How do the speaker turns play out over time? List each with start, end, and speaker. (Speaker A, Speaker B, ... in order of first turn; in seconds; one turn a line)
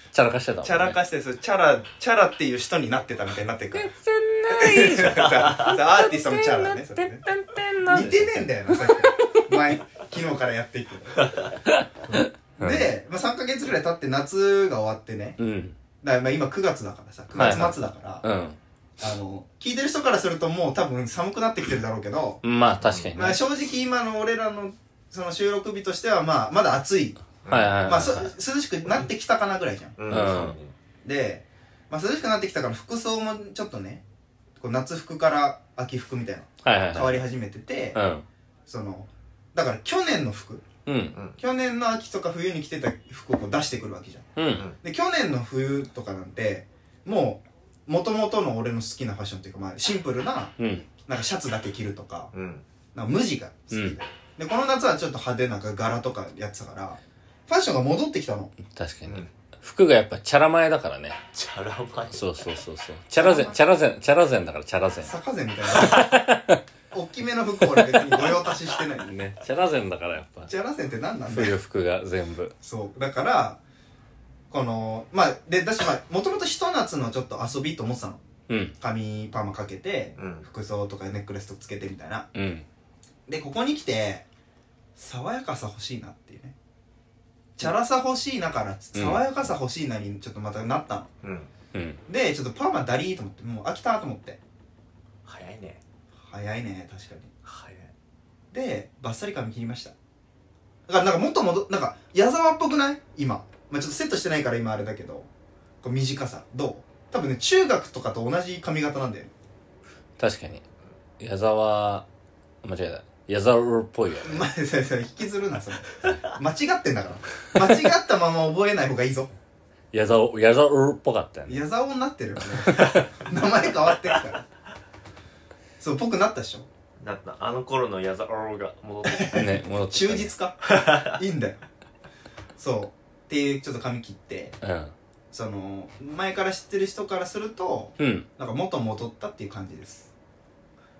Speaker A: 0.1-1.0
Speaker B: 0.6-3.9
Speaker A: 3.7-9.4
Speaker B: 4.5-7.3
Speaker C: 5.1-5.7
Speaker B: 7.8-11.3
Speaker A: 11.7-12.9
Speaker B: 12.1-15.4
Speaker A: 15.4-15.8
Speaker B: 16.0-18.2
Speaker A: 17.4-18.6
Speaker B: 19.0-22.4
Speaker A: 22.4-23.4
Speaker C: 22.8-23.1
Speaker B: 23.2-27.3
Speaker C: 27.4-27.8
Speaker A: 27.5-28.3
Speaker B: 27.9-30.5
Speaker C: 30.0-30.7
Speaker A: 30.1-30.6
Speaker B: 31.0-34.0
Speaker B: 34.6-38.0
Speaker A: 36.6-37.2
Speaker A: 37.9-38.2
Speaker B: 38.7-40.7
Speaker A: 40.9-41.2
Speaker B: 41.4-52.3
Speaker A: 44.4-44.7
Speaker A: 50.6-50.9
Speaker C: 52.3-52.6
Speaker B: 53.0-58.5
Speaker A: 53.7-54.0
Speaker A: 58.6-61.2
Speaker C: 61.3-62.2
Speaker A: 62.1-65.1
Speaker B: 63.2-63.6
Speaker B: 65.1-66.1
Speaker A: 65.8-66.6
Speaker B: 66.9-69.1
Speaker A: 67.6-68.3
Speaker A: 69.0-70.5
Speaker B: 70.5-71.5
Speaker A: 71.3-72.5
Speaker B: 72.6-73.6
Speaker B: 74.5-78.2
Speaker A: 78.5-78.7
Speaker B: 78.8-82.3
Speaker C: 80.2-80.5
Speaker A: 82.3-82.7
Speaker B: 83.3-84.3
Speaker B: 85.0-86.5
Speaker B: 87.6-91.1
Speaker A: 89.0-89.2
Speaker C: 91.2-91.5
Speaker A: 91.7-92.0
Speaker B: 92.1-94.4
Speaker C: 95.3-95.8
Speaker B: 96.2-97.3
Speaker C: 97.5-97.9
Speaker B: 98.5-99.9
Speaker B: 100.9-105.3
Speaker B: 105.8-109.3
Speaker A: 110.2-110.6
Speaker A: 111.2-112.1
Speaker A: 112.6-114.5
Speaker B: 114.2-119.3
Speaker A: 119.9-121.6
Speaker B: 121.5-124.5
Speaker A: 122.6-123.1
Speaker B: 125.8-126.7
Speaker C: 127.0-129.4
Speaker B: 129.1-131.6
Speaker A: 129.3-130.3
Speaker C: 130.7-131.2
Speaker B: 132.6-134.6
Speaker A: 134.6-134.9
Speaker B: 135.3-140.1
Speaker A: 138.0-138.3